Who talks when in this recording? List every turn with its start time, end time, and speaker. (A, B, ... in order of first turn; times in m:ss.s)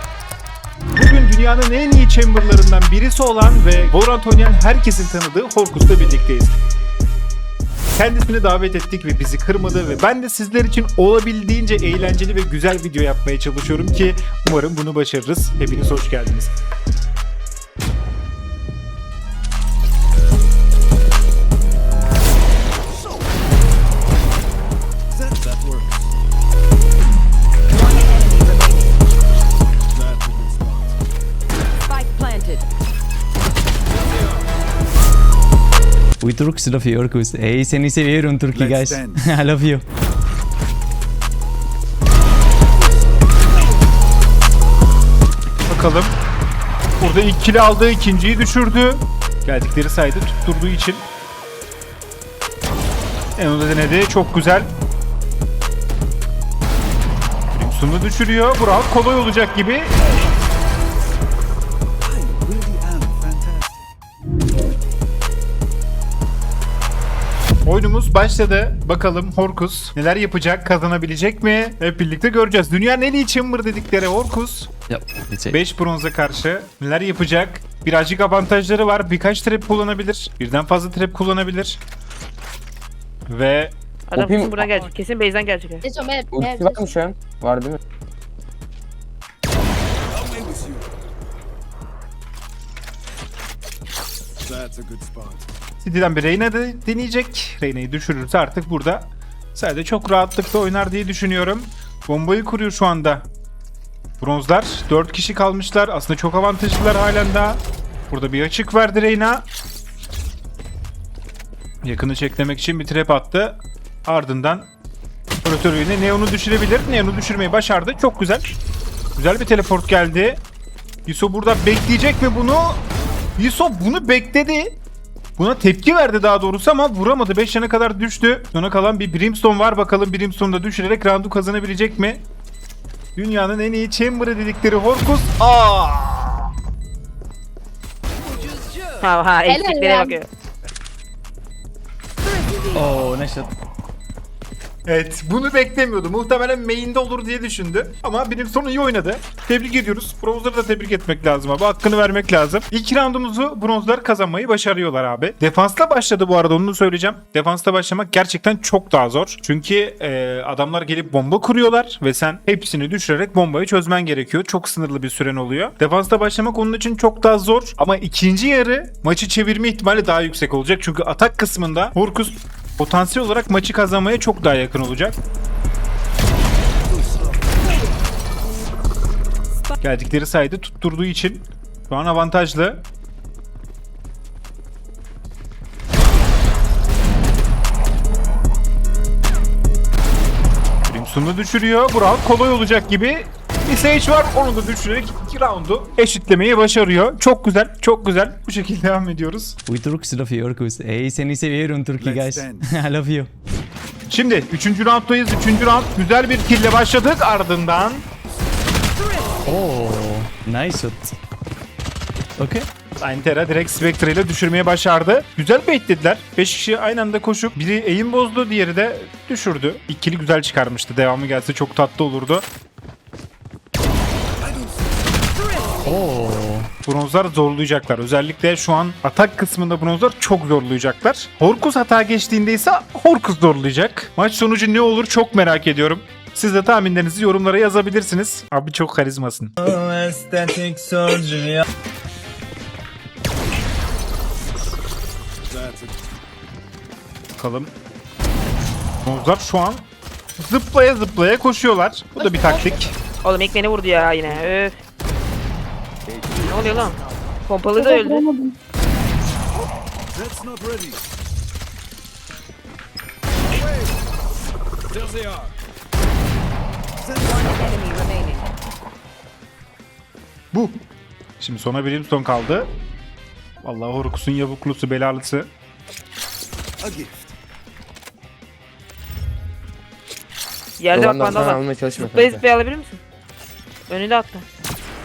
0:01.0-0:06.6 A
0:08.0-0:16.5 A
0:25.1-0:26.1 B
0:27.7-0:29.0 C
0:29.9-0:31.0 B
0:31.8-0:32.6 C
0:36.2-0:39.8 D
0:38.5-0:39.5 B
0:45.7-0:46.2 A
0:47.0-0:51.0 A
0:53.4-0:54.7 A
0:57.5-1:00.0 A
1:02.0-1:03.9 B
1:07.6-1:14.7 A
1:14.9-1:15.6 D
1:15.5-1:21.8 A
1:23.3-1:23.8 A
1:24.1-1:25.8 E
1:24.2-1:24.6 F
1:25.8-1:26.9 G
1:26.3-1:27.8 F
1:30.1-1:30.9 B
1:34.4-1:35.5 B
1:35.8-1:43.3 A
1:44.2-1:49.5 A
1:51.8-1:54.7 A
1:55.4-1:58.6 A
1:59.2-2:00.4 A
2:01.1-2:02.8 A
2:03.4-2:04.8 A
2:05.4-2:12.2 A
2:13.2-2:16.5 A
2:18.2-2:19.1 C
2:19.0-2:20.3 E
2:19.5-2:20.2 G
2:22.2-2:23.0 C
2:22.7-2:23.6 D
2:24.9-2:55.2 A
2:59.8-3:02.8 A
3:10.9-3:19.6 A
3:19.7-3:23.3 D
3:22.0-3:22.9 B
3:24.1-3:28.1 A
3:29.0-3:29.6 C
3:29.5-3:31.2 D
3:32.4-3:32.7 D
3:33.0-3:42.5 A
3:44.4-3:44.8 B
3:45.4-3:46.0 C
3:45.5-3:46.0 B
3:45.9-3:46.7 D
3:46.9-3:59.6 A
4:05.5-4:06.0 B
4:07.4-4:07.7 A
4:09.0-4:13.0 A
4:12.2-4:12.8 G
4:13.2-4:14.8 E
4:16.1-4:17.1 B
4:16.4-4:18.3 E
4:20.1-4:21.0 B
4:24.9-4:25.5 B
4:27.0-4:27.8 B
4:27.2-4:28.5 C
4:30.5-4:30.8 A
4:31.4-4:32.7 A
4:33.6-4:35.5 A
4:36.8-4:37.3 B
4:40.8-4:43.0 E
4:40.9-4:42.5 F
4:43.9-4:44.4 E